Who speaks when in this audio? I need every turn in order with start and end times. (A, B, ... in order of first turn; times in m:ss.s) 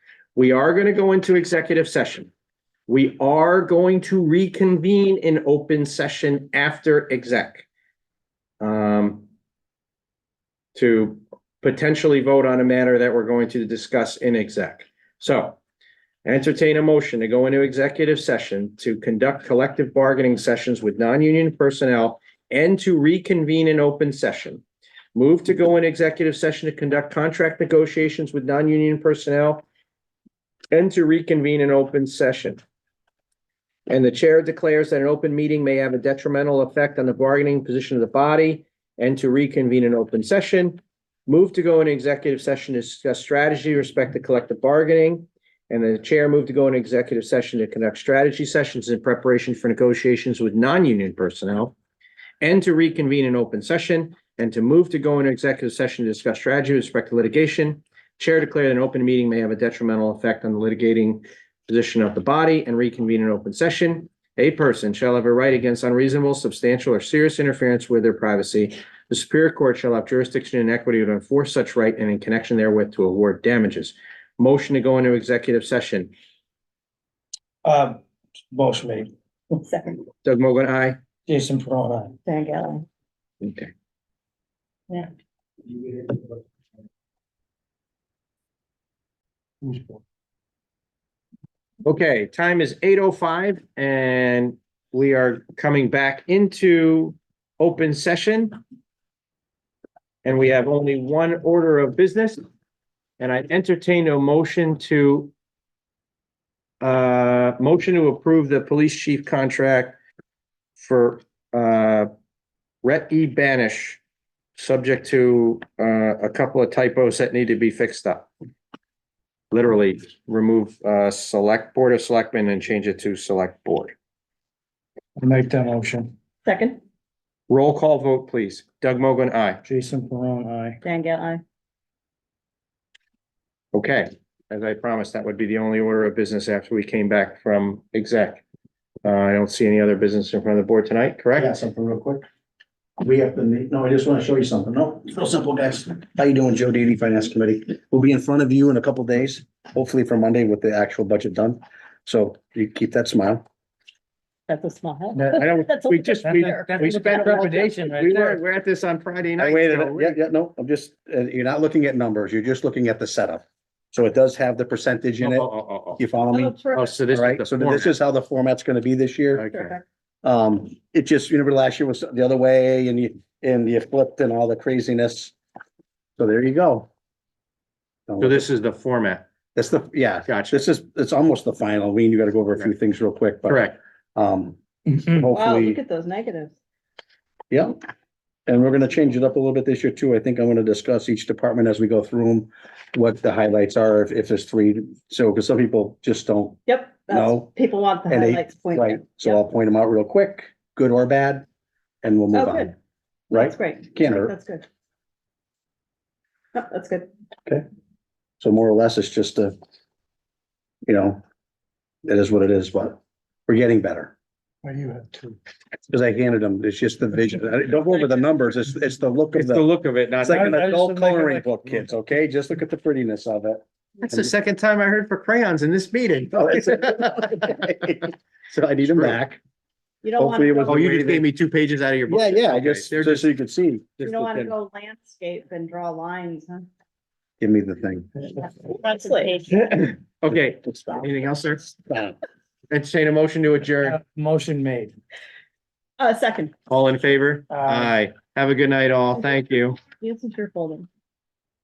0:00.4-0:02.3 A
0:02.9-0:07.6 A
0:08.6-0:09.2 A
0:10.7-0:15.6 A
0:16.2-0:24.6 A
0:25.1-0:29.6 A
0:30.7-0:32.6 A
0:33.9-0:51.7 A
0:52.4-1:16.1 A
1:17.6-1:18.0 B
1:18.5-1:19.1 B
1:19.5-1:20.1 C
1:20.2-1:21.0 A
1:21.3-1:22.2 B
1:22.3-1:22.8 C
1:23.4-1:23.7 A
1:29.6-1:29.9 B
1:31.8-1:38.6 A
1:40.2-1:42.4 A
1:43.2-1:45.3 A
1:46.8-1:50.0 A
1:50.8-1:52.1 A
1:52.8-1:54.0 A
1:54.6-1:58.3 A
1:59.5-2:03.9 A
2:05.2-2:06.1 B
2:06.4-2:06.8 C
2:07.5-2:09.6 A
2:09.6-2:10.8 B
2:10.8-2:11.4 C
2:13.7-2:18.4 A
2:19.0-2:21.5 A
2:21.4-2:22.2 D
2:23.0-2:33.4 D
2:34.5-2:37.5 C
2:35.2-2:40.2 A
2:36.2-2:38.4 B
2:39.4-2:49.5 D
2:45.2-2:46.0 A
2:46.3-2:46.9 C
2:46.7-2:48.0 A
2:49.3-2:49.8 A
2:49.5-2:49.8 C
2:50.2-2:55.3 D
2:56.2-2:56.9 D
2:58.1-2:58.4 D
2:58.2-2:59.2 A
2:59.5-3:05.8 D
3:00.3-3:00.6 A
3:03.5-3:03.8 A
3:05.3-3:06.5 C
3:07.5-3:07.8 D
3:08.5-3:17.5 D
3:16.7-3:19.4 C
3:18.1-3:21.4 D
3:22.0-3:22.7 D
3:22.3-3:22.7 C
3:23.3-3:24.6 C
3:23.3-3:24.3 D
3:26.5-3:27.1 C
3:28.4-3:29.5 D
3:30.8-3:31.2 D
3:32.0-3:34.1 D
3:34.6-3:35.4 B
3:35.9-3:39.7 D
3:39.3-3:40.6 A
3:40.2-3:44.3 D
3:40.3-3:41.6 B
3:44.1-3:48.1 A
3:46.3-3:49.4 D
3:48.8-3:49.2 A
3:50.0-3:50.8 C
3:50.2-3:51.2 D
3:50.6-3:53.3 A
3:52.1-3:54.0 D
3:54.0-3:54.5 A
3:54.0-3:56.7 C
3:57.4-3:58.3 D
3:58.6-3:59.5 C
3:59.6-4:01.8 A
4:00.3-4:01.1 D
4:01.8-4:02.2 D
4:02.7-4:04.0 A
4:03.8-4:04.9 B
4:06.0-4:06.5 C
4:06.7-4:09.8 A
4:07.5-4:08.0 B
4:10.0-4:10.9 C